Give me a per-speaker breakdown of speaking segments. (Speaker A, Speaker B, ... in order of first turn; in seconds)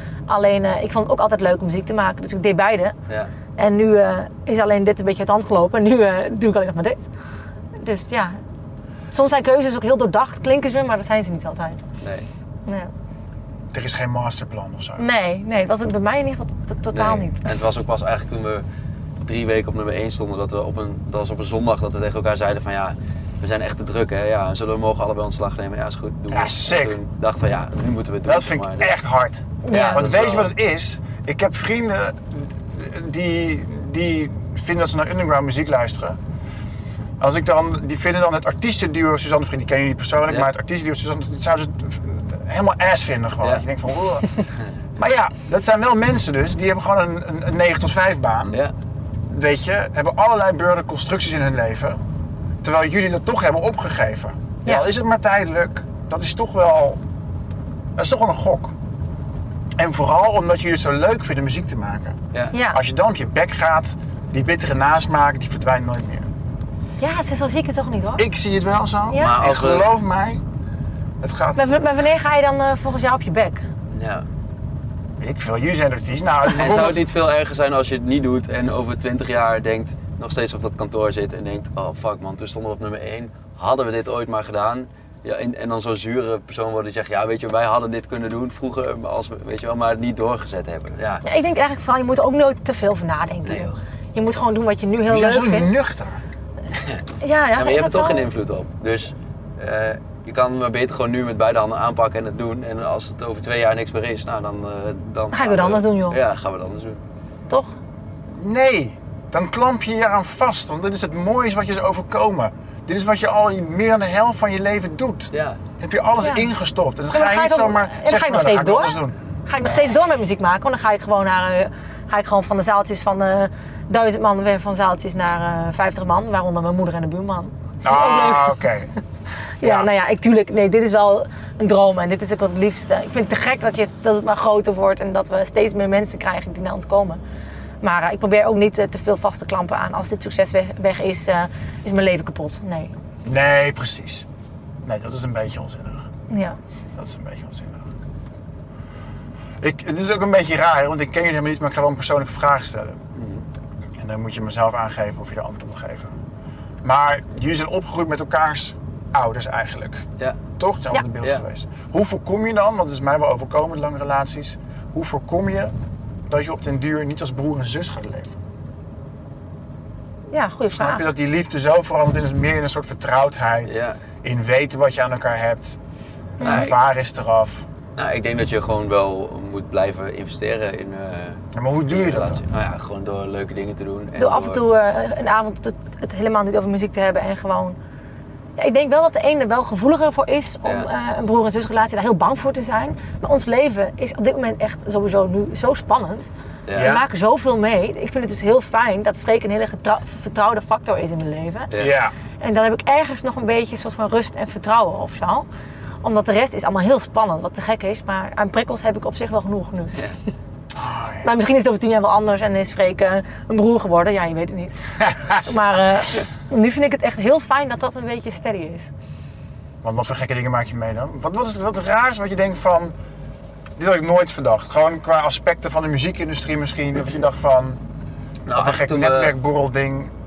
Speaker A: 0.3-3.0, 3.6-7.1, 7.8-8.4, 9.1-11.8, 15.0-17.5, 29.6-30.0, 62.5-62.8, 67.0-68.2, 71.6-73.6, 91.2-95.7, 97.2-98.3, 105.3-106.2, 117.1-128.6, 129.6-137.2, 137.8-142.9, 146.3-146.6, 170.3-171.1, 176.4-176.7, 184.2-187.8, 188.6-201.7, 202.4-205.5, 206.0-210.0, 211.2-218.9
Speaker B: 12.0-12.3, 16.9-18.6, 19.2-28.9, 29.7-30.5, 69.1-69.9, 73.9-74.3, 76.5-91.2, 93.5-93.7, 96.7-97.0, 97.6-107.0, 115.3-115.6, 153.2-153.4, 173.7-174.0, 176.4-176.7, 178.0-184.6, 196.7-197.0, 228.5-229.3
Speaker C: 13.7-15.1, 26.3-27.0, 28.2-36.2, 37.2-44.3, 45.0-48.6, 49.3-52.0, 52.6-57.0, 58.0-58.7, 59.8-62.2, 62.7-66.3, 68.2-70.4, 71.2-71.7, 75.2-77.0, 95.1-96.2, 108.3-119.9, 127.8-128.9, 129.6-129.9, 143.2-144.2, 144.8-146.1, 146.9-147.9, 149.6-153.0, 154.0-156.1, 156.8-160.1, 160.6-165.7, 166.3-168.4, 170.7-175.8, 176.4-177.7, 181.5-182.4, 196.8-197.0, 201.8-202.1, 210.7-211.3, 215.1-215.4, 219.8-222.9, 223.8-227.8, 228.5-230.1